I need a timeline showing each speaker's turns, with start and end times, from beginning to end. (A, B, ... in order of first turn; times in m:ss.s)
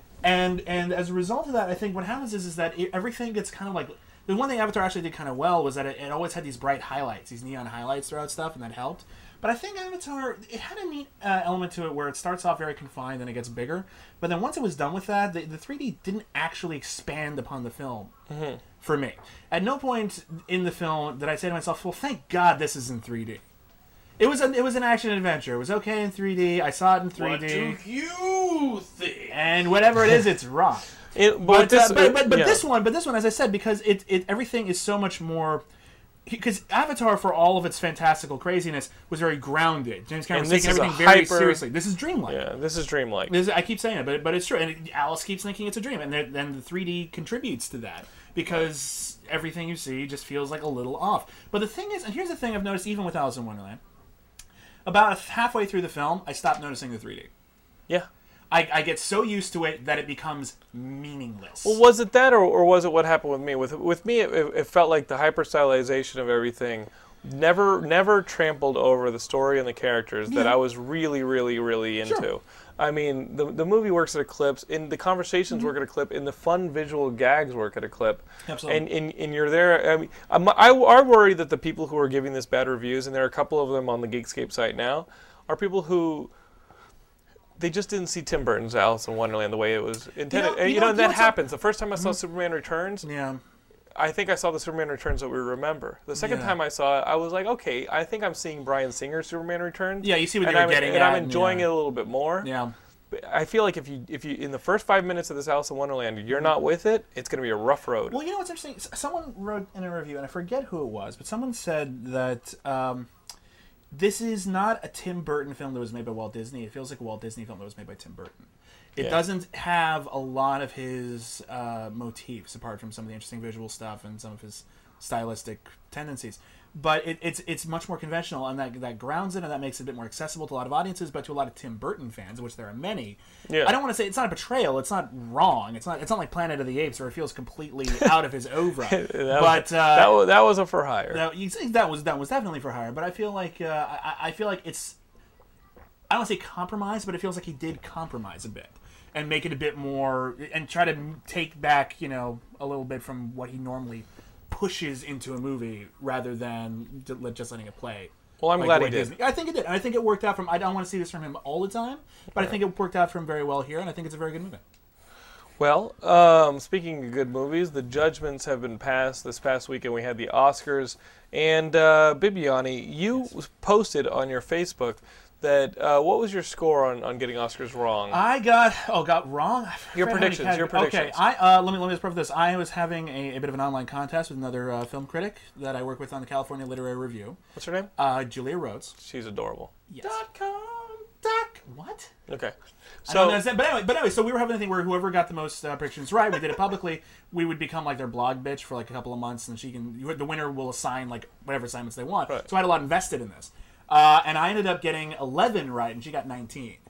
0:00.2-0:18.1 A
0:18.3-0:18.6 B
0:18.8-0:23.4 A
0:24.2-0:27.8 A
0:27.2-0:29.4 C
0:29.3-0:35.6 A
0:31.1-0:32.6 B
0:36.3-0:42.4 A
0:40.3-0:41.6 B
0:42.3-0:43.4 B
0:43.3-0:53.8 A
0:54.8-0:57.3 A
0:58.5-1:01.8 A
1:01.6-1:26.3 B
1:10.3-1:10.6 A
1:18.5-1:18.8 A
1:27.6-1:33.1 B
1:30.3-1:31.4 A
1:33.0-1:33.4 A
1:34.0-1:42.5 B
1:36.2-1:36.6 A
1:40.0-1:41.8 A
1:42.4-1:42.7 A
1:43.1-1:48.2 B
1:48.1-1:53.1 A
1:53.9-2:20.2 A
1:59.0-1:59.2 B
2:13.5-2:13.8 B
2:18.8-2:21.2 B
2:21.1-2:25.0 A
2:26.1-2:44.6 A
2:38.4-2:39.1 B
2:45.6-2:58.2 B
2:58.1-3:07.4 A
2:59.9-3:01.2 B
3:07.6-3:07.9 B
3:08.0-3:09.0 A
3:09.0-3:09.7 B
3:09.9-3:10.2 A
3:10.0-3:11.1 C
3:11.2-3:12.1 A
3:12.3-3:12.5 B
3:13.0-3:13.5 B
3:13.1-3:26.8 A